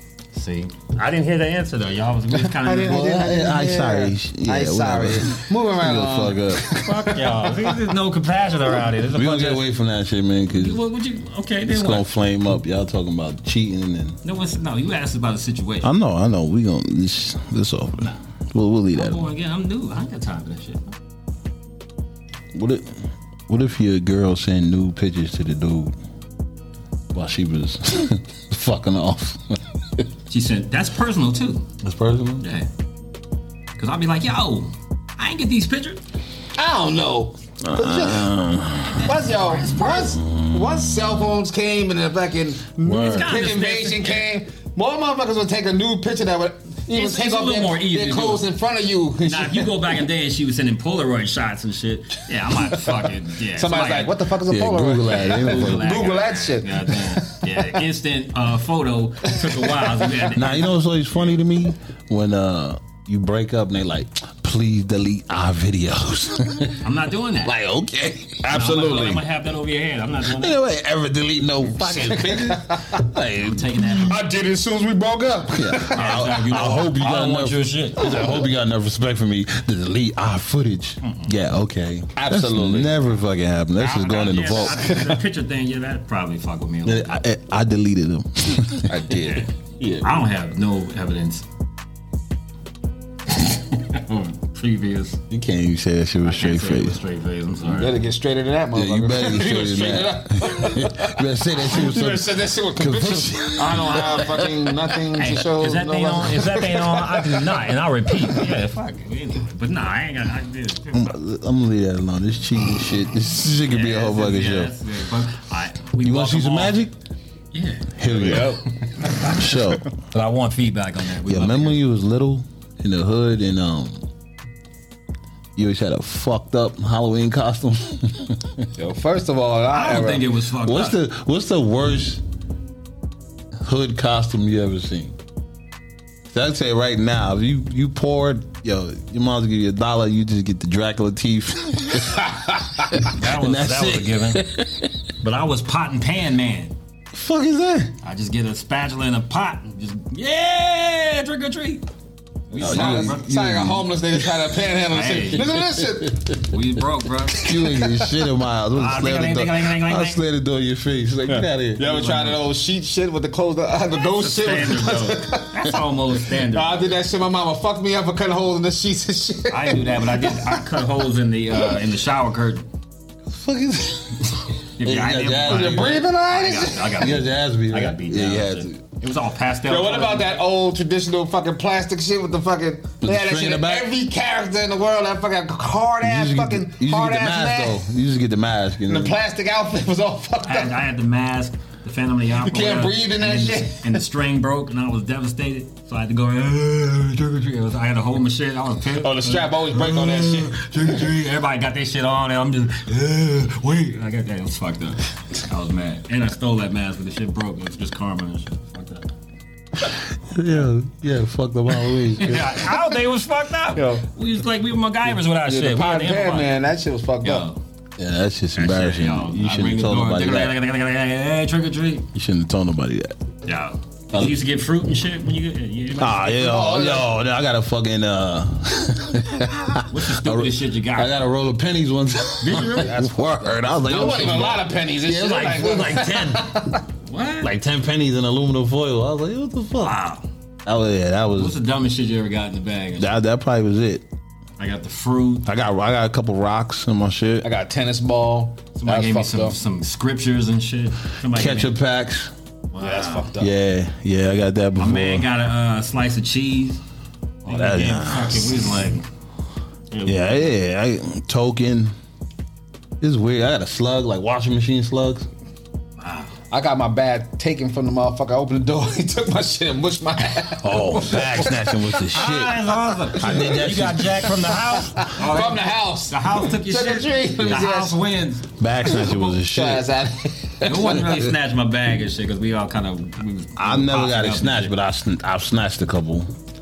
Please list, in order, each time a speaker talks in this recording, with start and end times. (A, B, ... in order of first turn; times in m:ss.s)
0:00.3-0:03.2 A
0:02.5-0:07.8 B
0:02.9-0:06.8 C
0:06.8-0:09.6 A
0:09.1-0:10.8 C
0:10.5-0:12.1 A
0:11.7-0:14.2 C
0:14.2-0:15.9 A
0:15.8-0:19.2 C
0:18.9-0:21.0 A
0:22.5-0:26.0 C
0:27.1-0:30.0 C
0:30.3-0:31.7 A
0:31.8-0:32.4 C
0:32.4-0:32.7 A
0:33.8-0:36.0 A
0:36.6-0:38.3 B
0:37.6-0:39.1 C
0:39.0-0:40.1 A
0:39.0-0:50.0 B
0:39.9-0:41.3 C
0:42.8-0:43.3 C
0:42.9-0:44.3 A
0:46.9-0:48.4 A
0:49.2-0:54.1 A
0:53.5-0:57.7 B
0:54.5-0:56.1 C
0:55.1-1:00.7 A
0:59.3-1:00.1 B
1:00.3-1:06.9 C
1:06.8-1:07.6 A
1:07.4-1:09.0 C
1:08.4-1:09.2 B
1:08.4-1:10.6 A
1:10.3-1:12.8 C
1:11.7-1:13.0 B
1:13.0-1:14.2 A
1:13.6-1:14.1 C
1:14.1-1:16.7 B
1:15.5-1:25.0 C
1:15.9-1:18.1 A
1:18.0-1:18.4 B
1:21.0-1:21.3 A
1:22.2-1:22.9 B
1:23.8-1:27.2 A
1:26.8-1:29.0 C
1:28.9-1:30.0 B
1:30.0-1:31.4 A
1:33.3-1:35.2 A
1:35.3-1:37.0 C
1:36.2-1:38.0 A
1:37.7-1:47.6 B
1:38.7-1:44.6 C
1:45.1-1:51.2 A
1:50.9-1:54.7 C
1:53.7-1:56.8 A
1:56.0-1:56.9 C
1:57.5-1:58.6 A
1:58.0-1:58.6 C
1:58.1-1:59.3 B
1:59.3-1:59.8 C
2:00.1-2:01.8 A
2:01.3-2:04.0 C
2:05.6-2:08.6 C
2:08.8-2:10.3 B
2:09.7-2:11.0 A
2:10.6-2:12.2 C
2:13.6-2:15.1 C
2:16.3-2:22.2 C
2:22.9-2:24.9 C
2:23.0-2:24.4 A
2:25.2-2:26.7 A
2:27.1-2:27.9 C
2:28.0-2:31.9 A
2:32.5-2:33.3 A
2:32.6-2:36.4 B
2:32.6-2:34.4 C
2:34.9-2:35.5 A
2:35.5-2:36.1 C
2:36.5-2:37.5 A
2:37.4-2:42.1 C
2:37.7-2:38.0 B
2:38.8-2:40.2 A
2:41.3-2:45.7 B
2:41.9-2:42.4 A
2:44.1-2:46.9 A
2:46.5-2:50.6 B
2:49.5-2:52.7 A
2:53.3-2:56.0 C
2:54.8-3:00.4 A
2:55.4-2:57.1 B
2:57.0-2:58.8 C
2:59.7-3:07.8 B
3:03.0-3:03.9 C
3:06.0-3:09.2 C
3:08.9-3:10.8 B
3:10.4-3:29.1 A
3:12.4-3:14.0 B
3:19.0-3:20.6 B
3:29.8-3:32.6 C
3:32.1-3:36.5 A
3:33.8-3:34.0 B
3:35.4-3:37.5 B
3:37.2-3:37.6 A
3:38.0-3:40.6 C
3:38.6-3:42.1 A
3:42.1-3:43.2 C
3:43.4-3:46.4 A
3:44.1-3:44.4 C
3:46.0-3:56.5 C
3:46.3-3:47.1 B
3:49.9-3:51.1 A
3:52.4-3:53.0 A
3:52.6-3:56.8 B
3:54.0-3:54.5 A
3:55.1-3:55.5 A
3:57.0-3:57.5 A
3:57.4-4:00.0 C
3:59.8-4:00.2 A
4:00.6-4:01.6 C
4:01.4-4:03.1 A
4:03.0-4:04.0 C
4:04.6-4:05.5 A
4:05.5-4:07.5 C
4:07.4-4:09.6 B
4:08.8-4:11.8 A
4:11.2-4:12.3 C
4:12.7-4:13.3 A
4:12.8-4:13.5 B
4:13.4-4:15.3 C
4:14.8-4:16.8 A
4:17.4-4:19.1 A
4:17.4-4:18.6 C
4:19.9-4:20.5 A
4:20.0-4:22.0 C
4:23.0-4:25.3 C
4:26.0-4:26.4 A
4:26.5-4:31.9 B
4:30.6-4:34.5 C
4:32.1-4:39.0 A
4:35.0-4:38.0 B
4:38.6-4:39.8 C
4:38.8-4:41.2 B
4:40.6-4:44.8 A
4:43.6-4:46.3 C